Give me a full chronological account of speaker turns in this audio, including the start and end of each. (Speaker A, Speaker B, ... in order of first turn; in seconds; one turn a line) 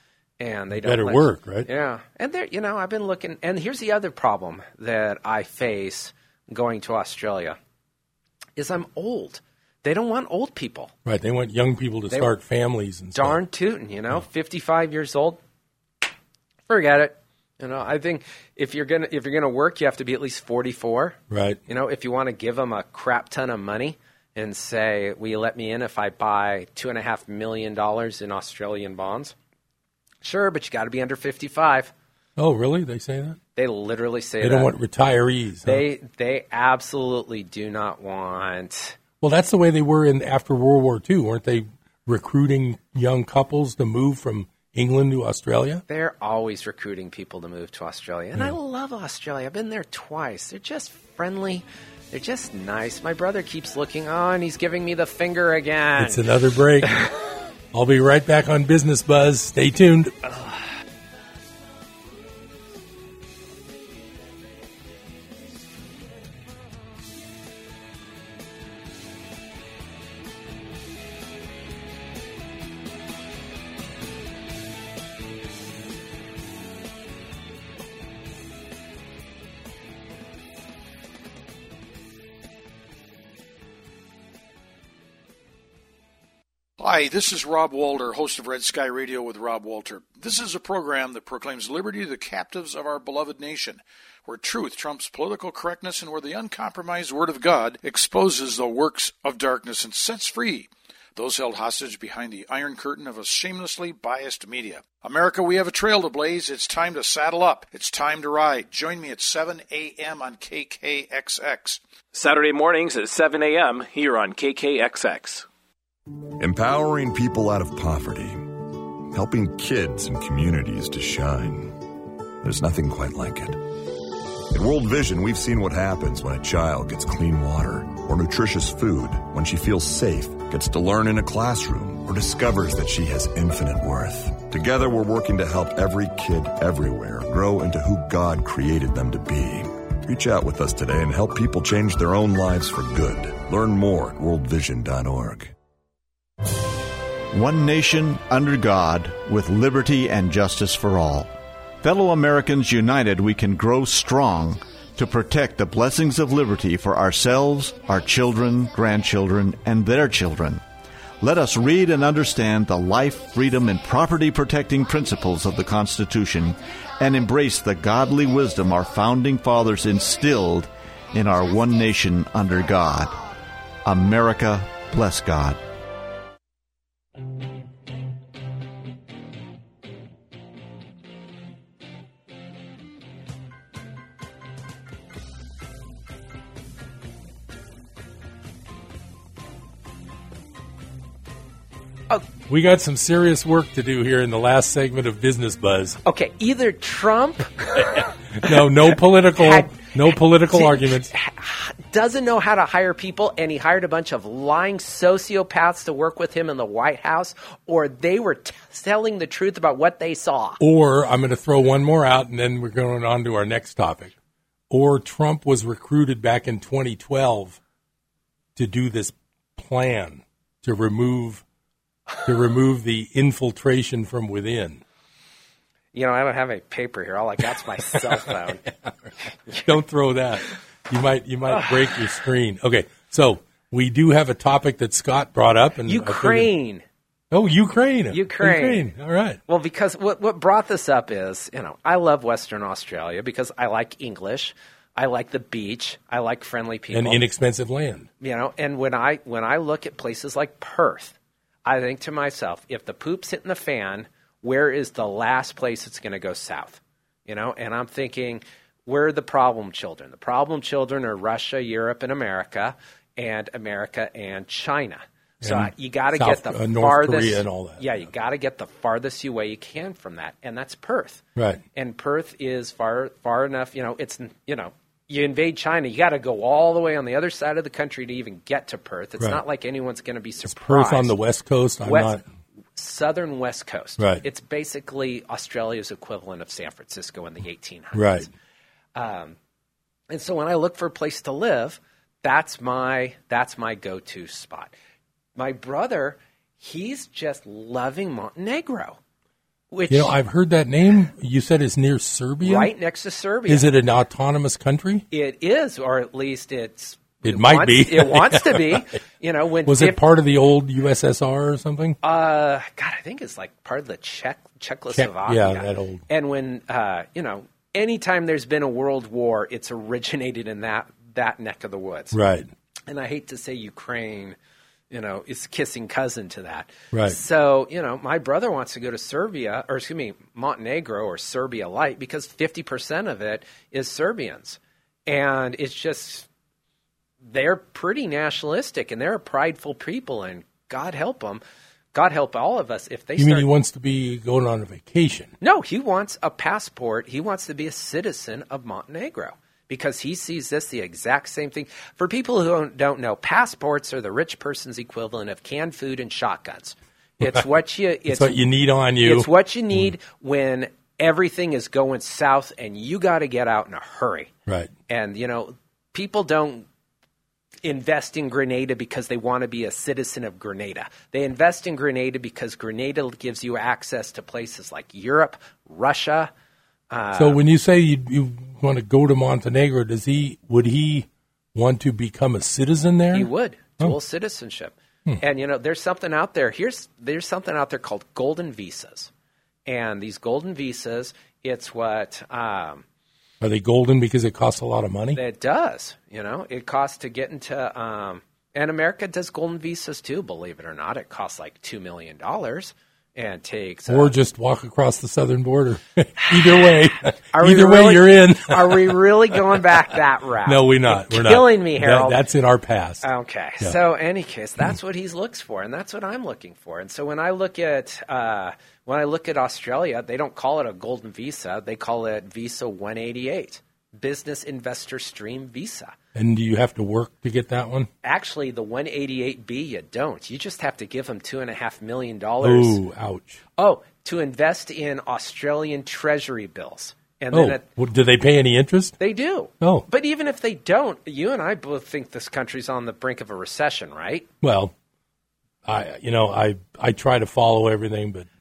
Speaker A: 0.4-7.6
Speaker B: 0.7-1.7
Speaker A: 8.6-10.9
Speaker B: 11.1-13.4
Speaker A: 13.2-15.4
Speaker A: 16.7-29.3
Speaker B: 21.3-21.6
Speaker A: 30.2-31.9
Speaker B: 32.4-33.4
Speaker A: 33.6-34.7
Speaker B: 34.4-35.8
Speaker A: 35.6-39.0
Speaker B: 39.2-45.8
Speaker A: 45.9-56.3
Speaker B: 56.0-57.0
Speaker B: 57.7-60.2
Speaker C: 86.8-111.8
Speaker D: 112.1-115.5
Speaker E: 116.4-118.5
Speaker E: 119.1-121.8
Speaker E: 122.4-123.6
Speaker E: 124.5-145.5
Speaker F: 147.3-160.6
Speaker F: 161.2-173.2
Speaker F: 173.8-175.6
Speaker B: 192.5-196.0
Speaker A: 196.1-210.6
Speaker B: 197.8-201.1
Speaker B: 210.6-214.1
Speaker B: 214.7-217.6
Speaker B: 218.6-221.4
Speaker B: 222.2-224.8
Speaker A: 225.9-228.6
Speaker B: 229.6-236.5
Speaker A: 231.5-232.0
Speaker A: 235.9-236.8
Speaker B: 237.3-239.4
Speaker A: 238.1-238.9
Speaker A: 239.5-247.2
Speaker B: 246.9-248.1
Speaker A: 248.2-271.2
Speaker B: 265.4-267.9
Speaker B: 271.4-271.6
Speaker A: 271.7-281.1
Speaker B: 280.5-282.3
Speaker A: 281.8-282.2
Speaker A: 282.8-288.3
Speaker B: 284.0-284.2
Speaker B: 287.9-288.3
Speaker A: 288.9-289.4
Speaker A: 290.1-294.7
Speaker A: 295.4-299.0
Speaker A: 299.7-300.2
Speaker B: 299.9-302.7
Speaker A: 302.4-303.7
Speaker B: 303.5-305.1
Speaker A: 305.1-310.0
Speaker B: 307.2-308.9
Speaker B: 309.7-312.0
Speaker A: 312.0-322.2
Speaker B: 314.9-316.0
Speaker B: 322.1-322.5
Speaker A: 322.9-324.4
Speaker A: 324.9-336.3
Speaker B: 326.9-327.2
Speaker A: 337.3-341.4
Speaker A: 341.9-343.5
Speaker B: 343.2-345.3
Speaker A: 345.4-358.4
Speaker B: 357.2-357.5
Speaker B: 358.1-359.9
Speaker A: 359.0-364.3
Speaker A: 364.9-366.7
Speaker A: 367.6-376.3
Speaker A: 376.9-377.4
Speaker B: 377.2-383.3
Speaker A: 383.1-389.1
Speaker A: 389.7-392.9
Speaker B: 393.4-395.2
Speaker A: 395.1-404.1
Speaker B: 403.9-409.0
Speaker A: 406.3-406.7
Speaker A: 407.3-412.2
Speaker B: 410.4-413.1
Speaker A: 413.0-425.9
Speaker B: 426.1-427.9
Speaker A: 428.0-432.8
Speaker B: 432.4-433.4
Speaker A: 433.6-437.6
Speaker B: 437.3-439.0
Speaker A: 439.0-444.3
Speaker B: 439.6-439.9
Speaker B: 444.4-444.7
Speaker B: 445.6-448.3